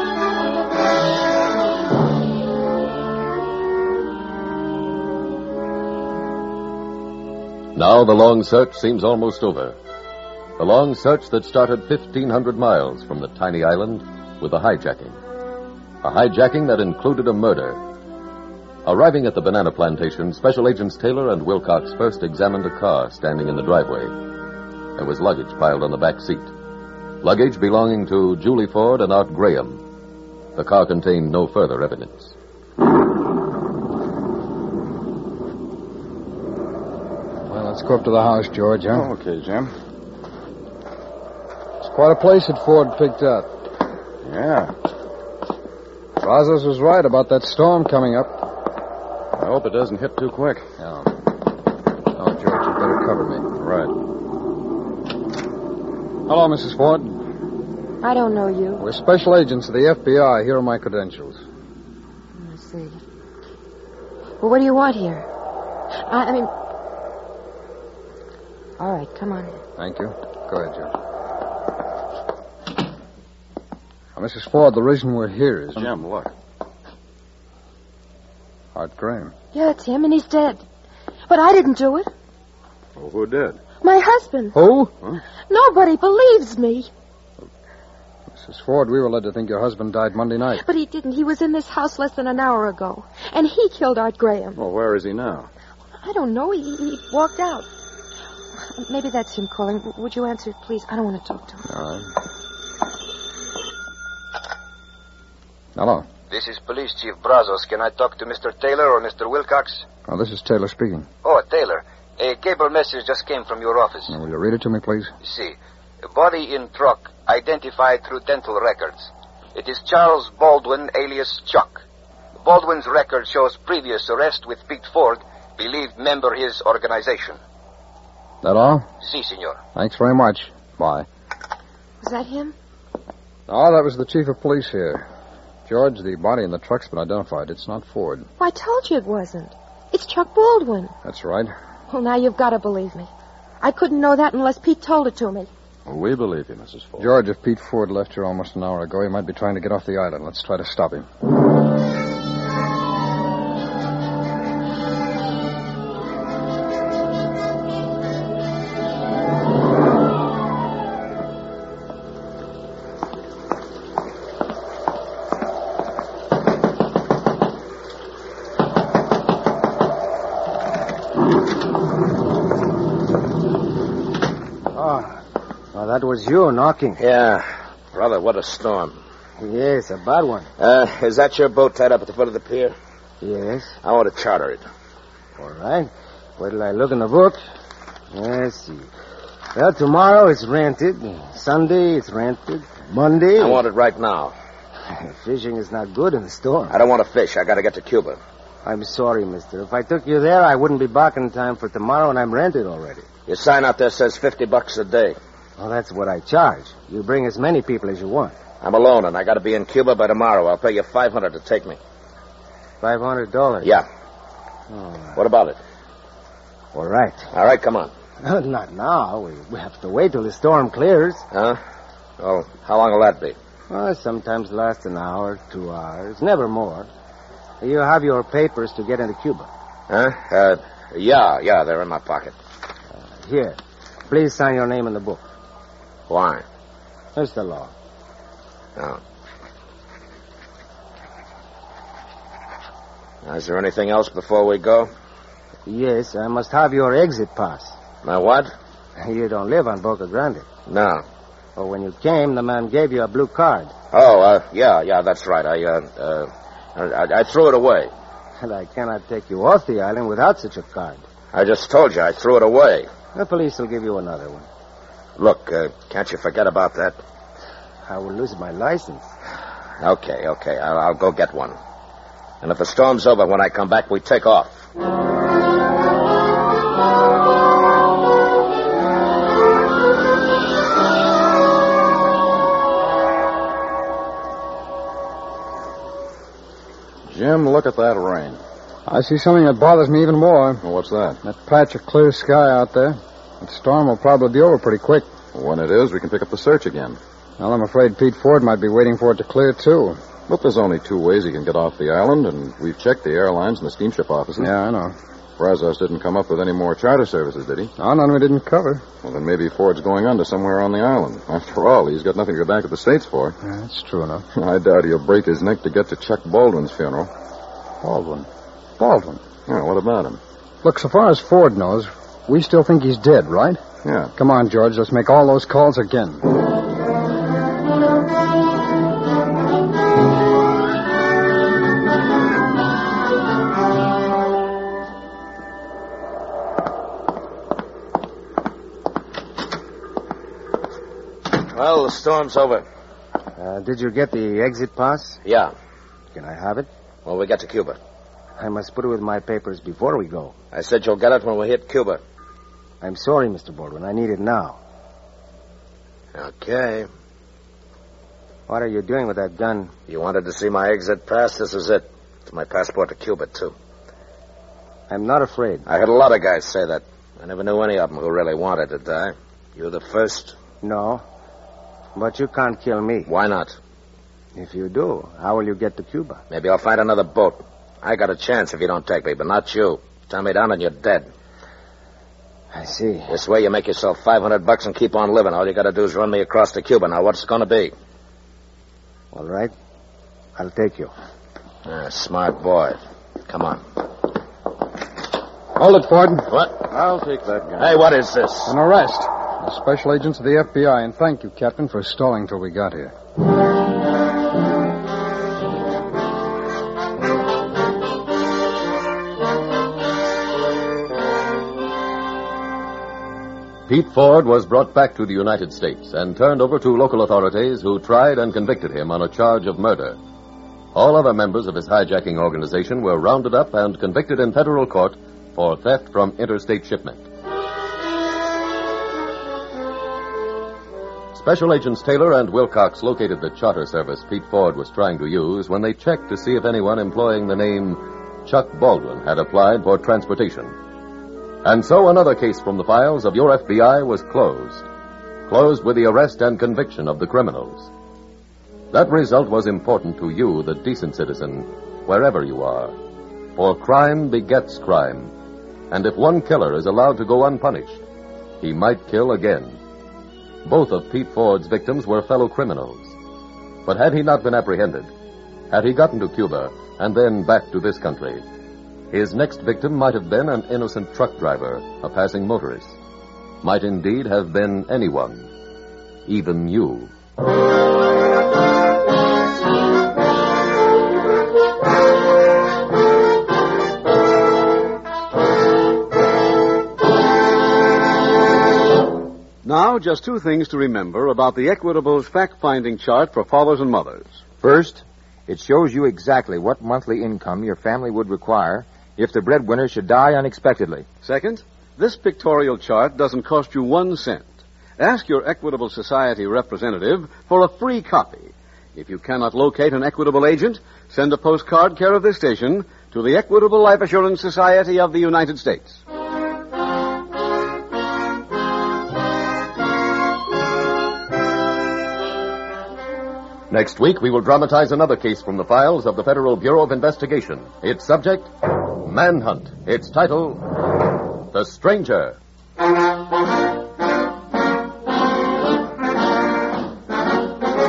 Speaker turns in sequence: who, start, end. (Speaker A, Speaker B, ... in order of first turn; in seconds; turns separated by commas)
Speaker A: 7.7-9.8, Speaker A: 10.6-15.2, Speaker A: 16.0-17.8, Speaker A: 18.9-24.1, Speaker A: 24.9-26.5, Speaker A: 27.2-29.8, Speaker A: 30.6-32.3, Speaker B: 37.5-39.1, Speaker C: 38.9-39.7, Speaker B: 41.8-43.5, Speaker C: 44.2-44.7, Speaker B: 46.2-48.5, Speaker C: 49.4-50.6, Speaker B: 50.8-51.1, Speaker B: 52.1-53.4, Speaker C: 53.6-53.9, Speaker B: 56.3-57.2, Speaker D: 58.0-58.9, Speaker B: 58.8-61.4, Speaker D: 62.4-63.0, Speaker D: 64.4-65.2, Speaker D: 66.0-66.5, Speaker D: 68.8-69.6, Speaker B: 69.8-70.9, Speaker B: 74.2-75.9, Speaker C: 75.8-76.3, Speaker B: 78.7-79.3, Speaker D: 79.5-80.6, Speaker D: 81.3-82.1, Speaker C: 83.0-83.6, Speaker D: 83.8-84.6, Speaker B: 84.5-84.9, Speaker D: 85.5-86.9, Speaker B: 88.3-90.6, Speaker D: 90.6-94.6, Speaker C: 94.6-95.5, Speaker D: 96.0-97.7, Speaker D: 98.7-101.6, Speaker B: 101.7-102.1, Speaker B: 105.8-106.1, Speaker E: 106.3-109.9, Speaker B: 110.1-111.1, Speaker E: 111.2-114.1, Speaker B: 114.1-115.1, Speaker E: 115.2-121.8, Speaker E: 122.4-127.4, Speaker B: 128.4-128.9, Speaker E: 129.0-129.6, Speaker B: 129.7-131.1, Speaker D: 132.0-132.5, Speaker B: 133.5-135.1, Speaker B: 135.7-138.3, Speaker D: 138.4-140.9, Speaker B: 141.0-141.5, Speaker D: 141.9-143.1, Speaker D: 143.6-145.5, Speaker C: 145.9-147.1, Speaker B: 147.0-151.1, Speaker F: 174.7-175.2, Speaker F: 175.7-177.0, Speaker G: 177.0-178.9, Speaker F: 179.4-180.5, Speaker G: 180.6-182.7, Speaker F: 183.2-183.8, Speaker G: 183.8-184.6, Speaker F: 185.4-187.4, Speaker F: 188.1-188.9, Speaker F: 189.6-193.6, Speaker G: 193.4-194.3, Speaker F: 194.9-196.7, Speaker G: 196.7-198.2, Speaker F: 198.6-203.1, Speaker G: 203.3-205.2, Speaker F: 205.6-208.3, Speaker G: 208.6-211.8, Speaker F: 212.8-213.7, Speaker F: 214.7-215.1, Speaker G: 215.2-215.6, Speaker F: 216.7-217.3, Speaker G: 217.3-217.9, Speaker F: 218.2-221.2, Speaker G: 221.3-221.6, Speaker G: 222.2-223.4, Speaker F: 223.7-226.9, Speaker F: 227.6-229.5, Speaker G: 229.9-232.3, Speaker F: 233.2-233.6, Speaker F: 234.1-235.2, Speaker G: 236.1-236.4, Speaker F: 237.1-237.7, Speaker G: 243.2-244.9, Speaker F: 245.7-247.8, Speaker G: 248.0-248.5, Speaker F: 249.0-250.4, Speaker G: 250.7-251.0, Speaker F: 251.6-253.7, Speaker G: 253.9-257.9, Speaker F: 258.4-261.0, Speaker G: 261.3-262.9, Speaker F: 263.1-264.5, Speaker G: 265.2-267.0, Speaker F: 267.9-269.1, Speaker G: 269.8-271.6, Speaker G: 272.4-274.6, Speaker C: 287.1-288.4, Speaker B: 288.9-290.6, Speaker C: 290.6-291.2, Speaker B: 291.2-295.1, Speaker C: 295.3-297.0, Speaker B: 297.4-300.0, Speaker C: 300.3-304.5, Speaker B: 304.4-304.9, Speaker C: 305.4-307.7, Speaker B: 307.8-308.9, Speaker C: 309.0-313.4, Speaker B: 313.4-314.2, Speaker C: 314.4-317.1, Speaker B: 317.8-318.3, Speaker B: 318.8-319.2, Speaker C: 319.5-320.2, Speaker B: 320.6-323.6, Speaker C: 323.8-324.1, Speaker B: 324.1-326.3, Speaker G: 341.4-342.6, Speaker F: 343.4-345.2, Speaker G: 345.2-345.5, Speaker F: 346.1-346.7, Speaker G: 347.1-347.8, Speaker F: 348.4-350.3, Speaker G: 350.5-352.0, Speaker F: 352.8-354.6, Speaker G: 356.1-356.9, Speaker F: 358.5-359.7, Speaker G: 359.9-363.5, Speaker F: 364.9-365.6, Speaker G: 365.6-370.4, Speaker F: 370.6-371.0, Speaker F: 371.9-373.1, Speaker G: 373.1-373.6, Speaker F: 374.4-376.2, Speaker G: 376.3-381.1, Speaker F: 382.5-383.1, Speaker G: 383.1-387.7, Speaker F: 389.1-389.5, Speaker F: 390.4-390.9, Speaker G: 391.6-393.6, Speaker B: 395.6-396.3, Speaker G: 396.3-396.6, Speaker C: 396.7-397.8, Speaker G: 397.6-398.5, Speaker B: 398.4-402.9, Speaker A: 413.7-420.0, Speaker A: 420.7-427.0, Speaker A: 431.1-440.6, Speaker A: 441.4-444.6, Speaker A: 445.3-447.7, Speaker A: 448.7-452.7, Speaker A: 453.4-455.1, Speaker A: 455.7-457.8, Speaker A: 458.4-459.6, Speaker A: 460.4-462.9, Speaker A: 463.6-464.9, Speaker A: 465.5-468.2, Speaker A: 468.9-472.8, Speaker A: 473.4-475.3, Speaker A: 476.1-476.9, Speaker H: 489.4-494.1, Speaker I: 494.4-500.9, Speaker H: 501.0-504.3, Speaker H: 504.8-515.8, Speaker A: 523.5-530.4, Speaker A: 531.3-532.2